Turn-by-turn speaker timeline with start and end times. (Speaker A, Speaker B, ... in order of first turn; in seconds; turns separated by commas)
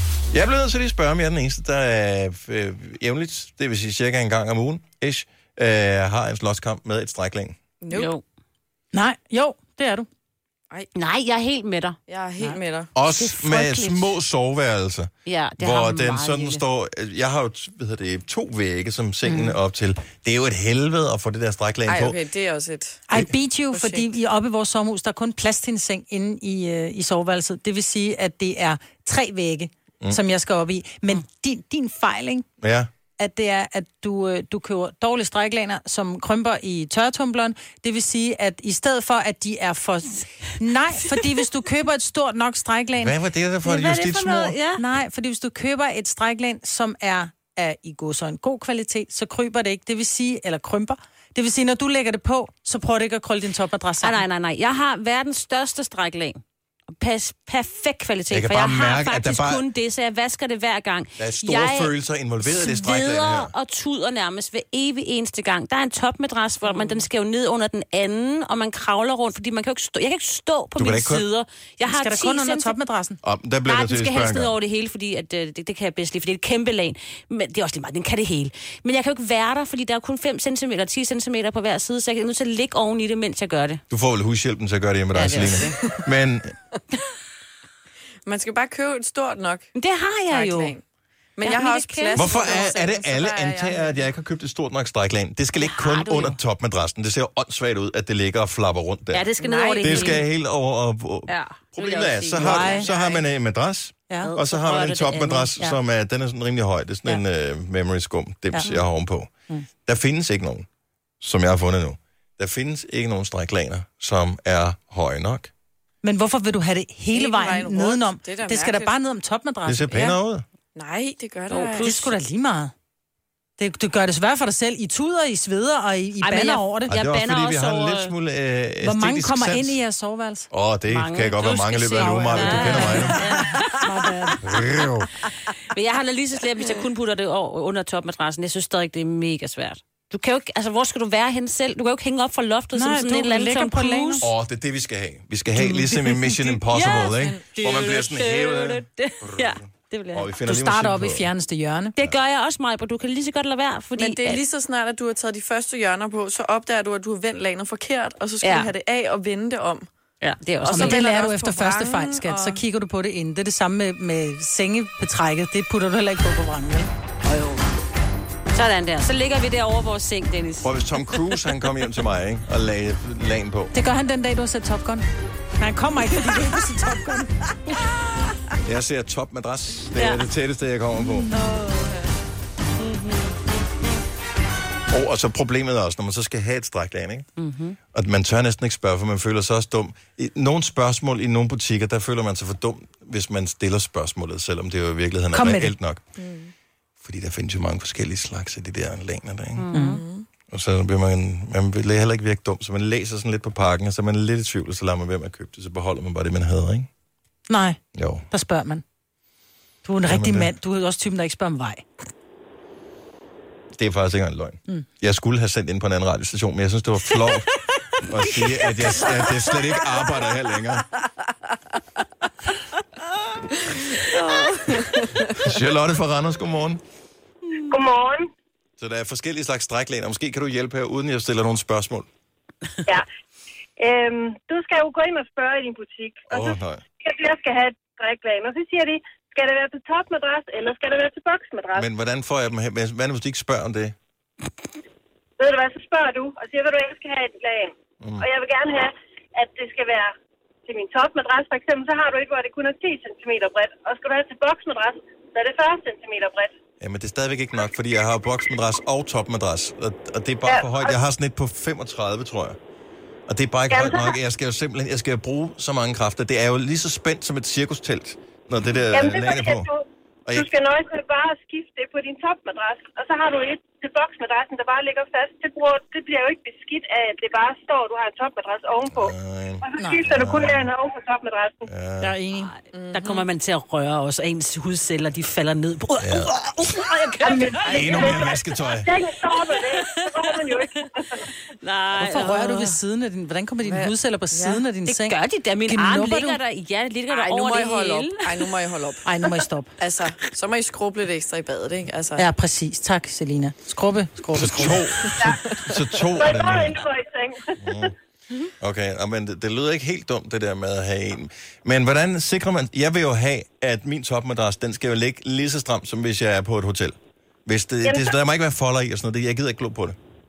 Speaker A: 0.3-7.6, Speaker B: 7.8-8.1, Speaker C: 7.9-8.2, Speaker D: 8.9-10.1, Speaker C: 10.9-14.1, Speaker B: 12.1-12.9, Speaker A: 12.9-22.2, Speaker C: 15.2-16.6, Speaker B: 21.9-23.1, Speaker D: 23.1-32.5, Speaker B: 23.7-24.1, Speaker A: 32.6-32.9, Speaker D: 33.2-43.1, Speaker A: 43.0-44.5, Speaker C: 43.6-44.8, Speaker D: 44.8-54.2, Speaker C: 54.0-56.4, Speaker C: 56.9-61.9, Speaker A: 58.3-59.6, Speaker A: 61.2-63.5, Speaker C: 62.5-72.7, Speaker D: 66.6-67.0, Speaker A: 70.8-71.2, Speaker D: 71.9-73.2, Speaker A: 73.2-74.5, Speaker C: 73.7-83.8, Speaker A: 83.9-86.5, Speaker C: 85.1-85.8, Speaker B: 88.2-89.7, Speaker C: 89.7-90.7, Speaker B: 90.3-90.8, Speaker B: 91.3-94.0, Speaker C: 91.4-92.4, Speaker A: 92.1-109.3, Speaker C: 95.6-96.4, Speaker C: 99.1-100.2, Speaker B: 99.4-100.2, Speaker C: 101.3-103.2, Speaker D: 102.4-102.9, Speaker C: 104.2-105.6, Speaker A: 109.8-110.7, Speaker A: 111.2-115.5, Speaker D: 116.0-120.0, Speaker B: 117.1-118.9, Speaker A: 119.6-120.4, Speaker B: 120.7-122.0, Speaker C: 121.5-122.1, Speaker D: 121.8-122.7, Speaker D: 123.6-126.9, Speaker C: 126.2-128.1, Speaker A: 126.9-129.8, Speaker D: 128.8-130.5, Speaker A: 130.5-133.4, Speaker C: 130.9-134.6, Speaker D: 131.9-134.6, Speaker A: 134.5-135.1, Speaker C: 135.5-144.3, Speaker D: 142.7-144.3, Speaker A: 144.2-151.3, Speaker C: 145.6-150.3, Speaker D: 150.4-151.9, Speaker C: 152.0-154.4, Speaker B: 153.9-159.9, Speaker C: 158.4-158.7, Speaker C: 160.2-161.1, Speaker B: 160.6-162.6, Speaker D: 160.7-166.9, Speaker C: 167.2-167.7, Speaker C: 168.5-170.8, Speaker A: 170.6-173.7, Speaker D: 173.7-175.0, Speaker D: 175.6-177.8, Speaker A: 178.6-181.3, Speaker C: 180.0-180.2, Speaker D: 181.1-181.9, Speaker C: 182.8-183.3, Speaker A: 184.9-187.3, Speaker C: 187.4-187.8, Speaker A: 187.9-196.0, Speaker D: 195.3-195.7, Speaker B: 196.2-196.5, Speaker A: 197.0-199.7, Speaker C: 199.6-200.0, Speaker D: 199.7-200.0, Speaker B: 199.8-200.2, Speaker A: 200.5-206.9, Speaker D: 207.5-207.8, Speaker A: 207.9-208.2, Speaker D: 208.3-208.8, Speaker D: 209.8-211.8, Speaker A: 210.0-210.5, Speaker A: 213.8-220.9, Speaker B: 223.7-225.3, Speaker A: 225.3-226.8, Speaker E: 227.6-228.3, Speaker A: 228.8-232.1, Speaker E: 233.8-241.8, Speaker A: 236.3-236.8, Speaker A: 241.7-243.9, Speaker E: 245.4-250.1, Speaker E: 250.7-256.5, Speaker A: 256.8-262.6, Speaker E: 260.4-261.0, Speaker A: 263.3-269.7, Speaker E: 263.7-264.1, Speaker E: 268.9-269.8, Speaker E: 270.4-281.7, Speaker A: 278.9-280.7, Speaker A: 281.7-282.2, Speaker D: 282.0-282.5, Speaker C: 282.4-287.6, Speaker B: 282.7-283.3, Speaker A: 286.0-286.3, Speaker D: 287.2-288.0, Speaker E: 287.4-291.2, Speaker A: 287.7-288.9, Speaker C: 289.4-290.8, Speaker C: 291.6-292.8, Speaker D: 292.0-296.4, Speaker B: 293.6-294.6, Speaker C: 294.9-298.5, Speaker B: 297.1-299.0, Speaker D: 299.0-299.7, Speaker B: 299.8-302.3, Speaker D: 302.1-304.8, Speaker A: 304.3-306.8, Speaker B: 304.6-305.2, Speaker E: 306.1-307.6, Speaker A: 307.6-307.9, Speaker A: 308.6-319.9, Speaker E: 317.8-318.1